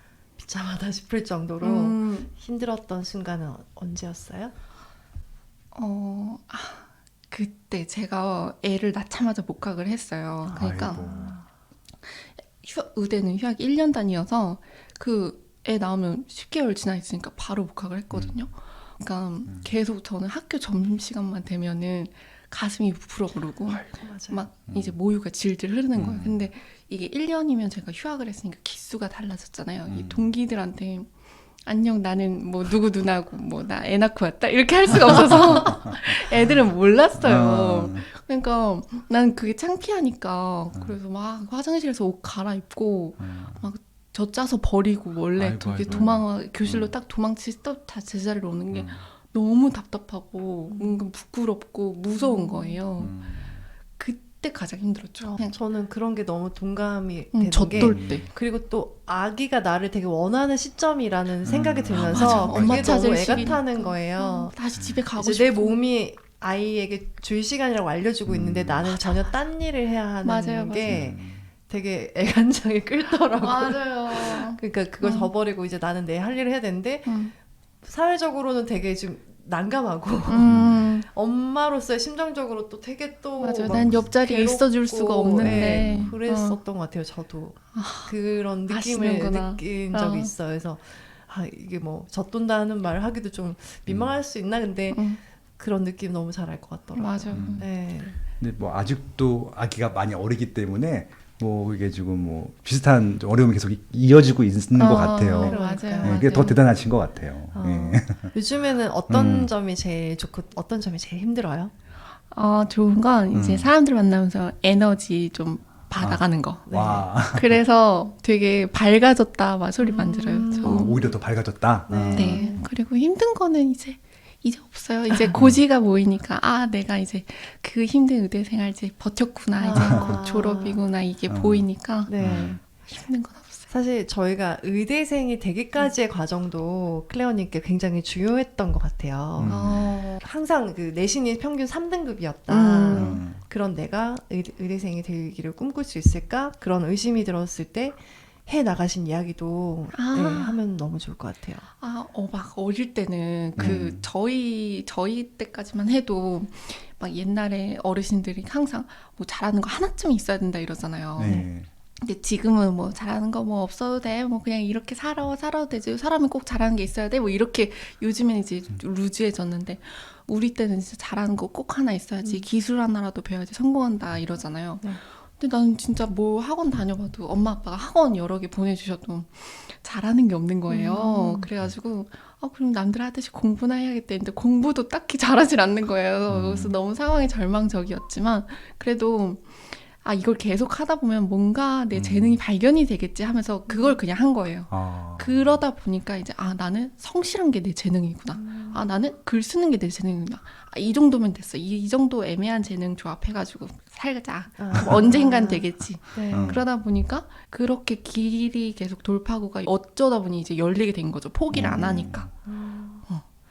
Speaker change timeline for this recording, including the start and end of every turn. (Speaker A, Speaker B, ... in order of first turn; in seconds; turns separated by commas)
Speaker A: 0.4-4.5, Speaker B: 1.6-2.3, Speaker B: 5.8-11.1, Speaker C: 10.5-11.4, Speaker A: 10.5-11.4, Speaker B: 12.5-31.1, Speaker C: 18.1-18.4, Speaker C: 19.5-19.7, Speaker A: 23.7-24.4, Speaker C: 24.7-25.0, Speaker C: 25.9-26.5, Speaker C: 29.9-30.3, Speaker B: 31.6-53.1, Speaker C: 37.2-38.1, Speaker C: 43.2-43.6, Speaker C: 45.4-46.9, Speaker A: 45.9-46.1, Speaker C: 48.7-49.0, Speaker A: 50.7-51.0, Speaker A: 52.1-52.8, Speaker C: 53.0-53.6, Speaker B: 54.0-55.5, Speaker A: 55.2-64.6, Speaker B: 57.3-58.3, Speaker C: 57.7-58.3, Speaker C: 61.4-63.6, Speaker B: 61.9-65.8, Speaker A: 65.2-77.2, Speaker C: 68.2-69.0, Speaker B: 70.2-71.0, Speaker C: 70.9-71.5, Speaker B: 73.4-75.3, Speaker B: 77.0-77.3, Speaker A: 77.8-98.2, Speaker B: 80.3-81.0, Speaker C: 80.4-80.9, Speaker B: 83.4-86.6, Speaker C: 83.7-84.1, Speaker C: 85.4-86.2, Speaker B: 87.8-88.1, Speaker B: 88.7-90.3, Speaker C: 93.9-94.2, Speaker B: 94.9-95.2, Speaker B: 96.9-97.7, Speaker C: 97.3-97.7, Speaker C: 98.4-108.3, Speaker B: 104.8-106.6, Speaker A: 105.4-106.4, Speaker A: 107.5-111.7, Speaker C: 109.1-109.5, Speaker B: 112.3-116.7, Speaker C: 113.3-113.7, Speaker C: 116.0-117.6, Speaker A: 116.7-117.0, Speaker B: 117.3-120.9, Speaker A: 119.8-121.1, Speaker C: 120.6-122.5, Speaker A: 121.9-122.6, Speaker B: 122.1-133.7, Speaker A: 129.6-130.8, Speaker C: 129.8-130.1, Speaker C: 131.3-131.7, Speaker A: 132.1-132.6, Speaker C: 132.2-132.6, Speaker A: 133.7-151.7, Speaker C: 139.4-139.9, Speaker B: 139.5-140.2, Speaker B: 142.5-143.2, Speaker C: 142.9-143.4, Speaker B: 149.9-150.6, Speaker B: 151.8-161.5, Speaker C: 153.6-154.0, Speaker C: 161.2-161.7, Speaker A: 161.2-161.5, Speaker B: 162.0-212.3, Speaker A: 180.7-181.5, Speaker C: 186.3-186.8, Speaker C: 191.9-192.4, Speaker A: 193.7-194.0, Speaker C: 194.7-195.6, Speaker A: 198.3-198.8, Speaker A: 204.6-206.6, Speaker C: 206.3-206.7, Speaker C: 211.5-212.3, Speaker A: 212.4-213.0